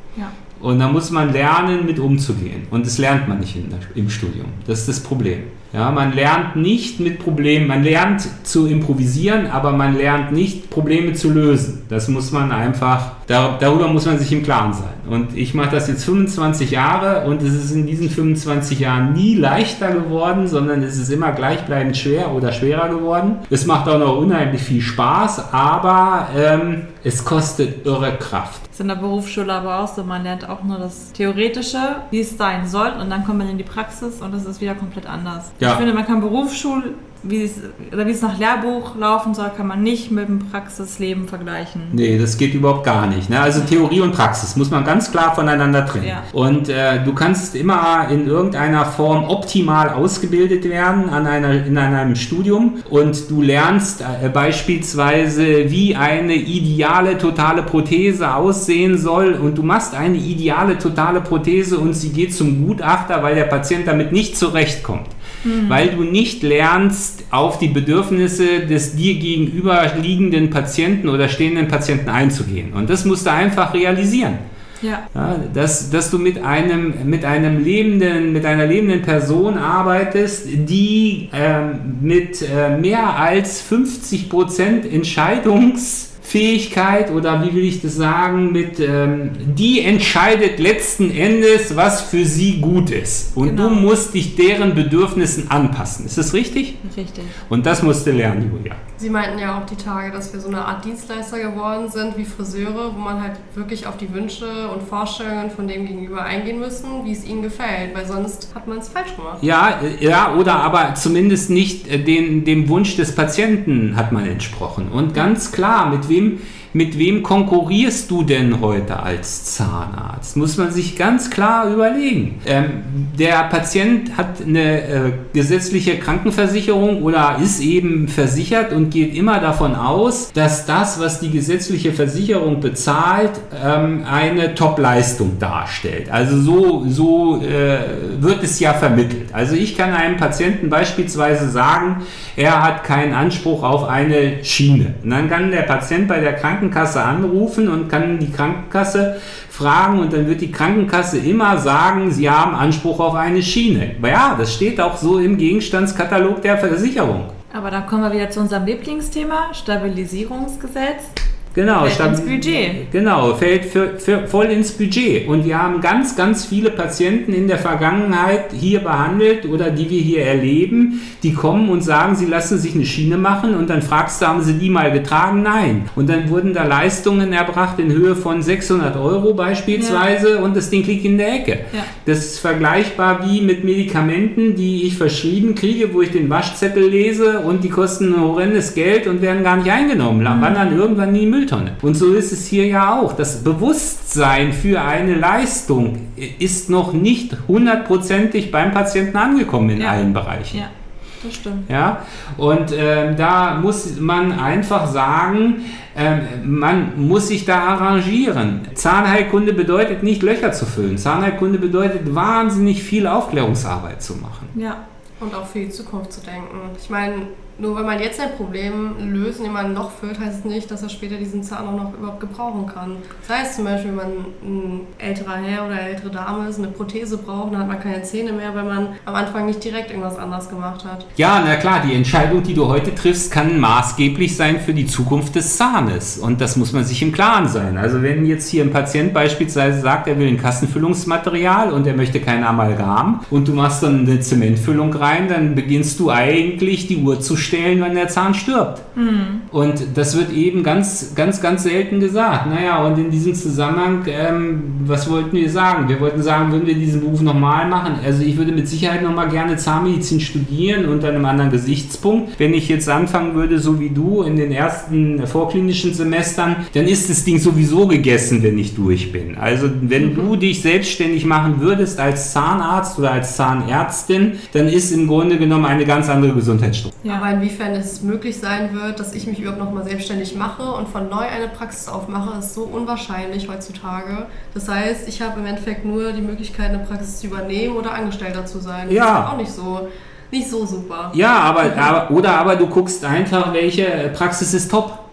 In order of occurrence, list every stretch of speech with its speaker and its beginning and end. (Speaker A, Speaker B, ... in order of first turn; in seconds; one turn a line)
Speaker A: 0.6-28.6
Speaker B: 28.7-42.0
Speaker A: 41.9-74.4
Speaker B: 46.0-46.2
Speaker B: 65.4-65.8
Speaker A: 75.1-96.8
Speaker B: 93.4-93.9
Speaker B: 96.8-97.4
Speaker A: 97.5-98.8
Speaker C: 99.0-109.4
Speaker A: 109.4-157.3
Speaker B: 157.5-161.1
Speaker A: 161.5-200.6
Speaker B: 161.8-162.8
Speaker B: 179.7-180.1
Speaker B: 190.3-190.8
Speaker B: 201.2-201.7
Speaker A: 201.7-214.5
Speaker B: 214.5-214.8
Speaker C: 215.2-231.1
Speaker A: 231.2-248.8
Speaker B: 248.9-249.4
Speaker A: 249.5-276.9
Speaker C: 277.1-291.2
Speaker A: 288.9-289.3
Speaker A: 291.1-295.0